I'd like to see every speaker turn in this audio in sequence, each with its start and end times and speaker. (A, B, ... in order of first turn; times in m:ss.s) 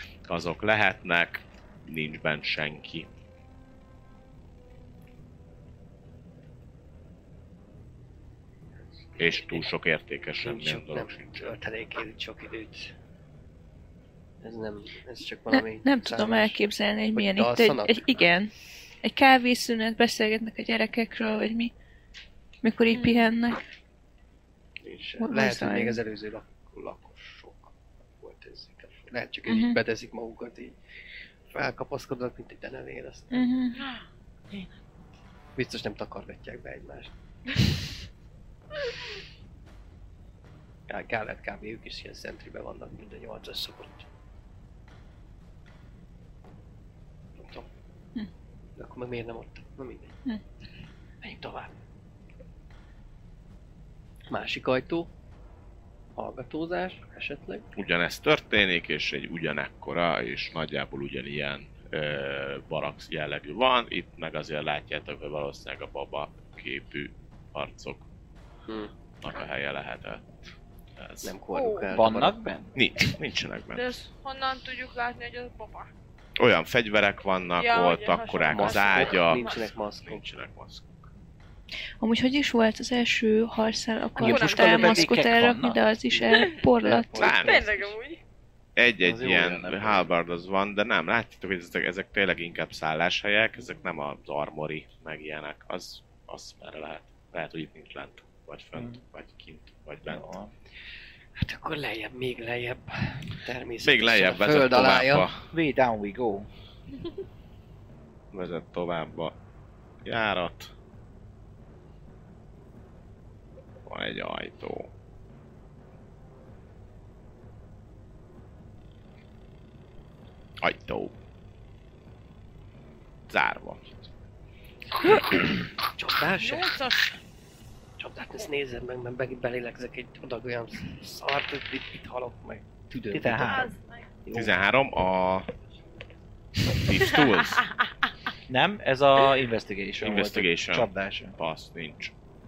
0:00.3-0:03.1 A
0:09.2-0:09.6 B
0:09.2-0:11.6 A
0:10.4-0:12.9 B
0:14.4-0:18.2 B
0:15.5-0:18.5 C
0:19.0-0:21.7 C
0:22.6-0:23.6 C
0:22.9-0:23.3 D
0:24.8-0:30.8 B
0:25.2-0:26.0 C
0:29.5-0:29.8 C
0:31.5-0:33.5 B
0:33.3-0:33.8 C
0:35.6-0:37.1 B
0:40.9-0:44.1 B
0:47.4-0:47.7 B
0:48.8-0:50.1 B
0:51.2-0:51.7 B
0:54.3-0:55.1 B
0:56.2-0:57.7 B
0:57.8-1:08.1 A
1:09.2-1:10.3 A
1:11.0-1:11.3 A
1:11.2-1:12.5 B
1:11.5-1:11.9 D
1:11.9-1:12.8 E
1:12.8-1:14.0 A
1:13.8-1:15.9 D
1:16.4-1:21.0 A
1:17.6-1:19.6 D
1:18.5-1:20.2 B
1:22.0-1:27.3 C
1:24.2-1:25.2 D
1:24.2-1:25.8 E
1:26.1-1:28.0 B
1:27.2-1:27.6 A
1:27.4-1:28.2 D
1:28.8-1:40.3 A
1:29.0-1:30.1 E
1:40.1-1:40.5 E
1:41.4-1:45.3 B
1:43.8-1:45.5 A
1:45.5-1:46.5 E
1:48.3-1:49.4 A
1:50.0-1:50.7 A
1:53.9-1:54.9 A
2:00.6-2:01.2 A
2:03.3-2:04.0 A
2:05.8-2:06.8 B
2:06.4-2:07.1 D
2:08.0-2:13.7 B
2:13.1-2:13.7 E
2:13.3-2:14.1 D
2:14.3-2:14.5 B
2:14.3-2:15.5 A
2:16.7-2:17.7 A
2:18.5-2:21.4 E
2:20.0-2:22.1 A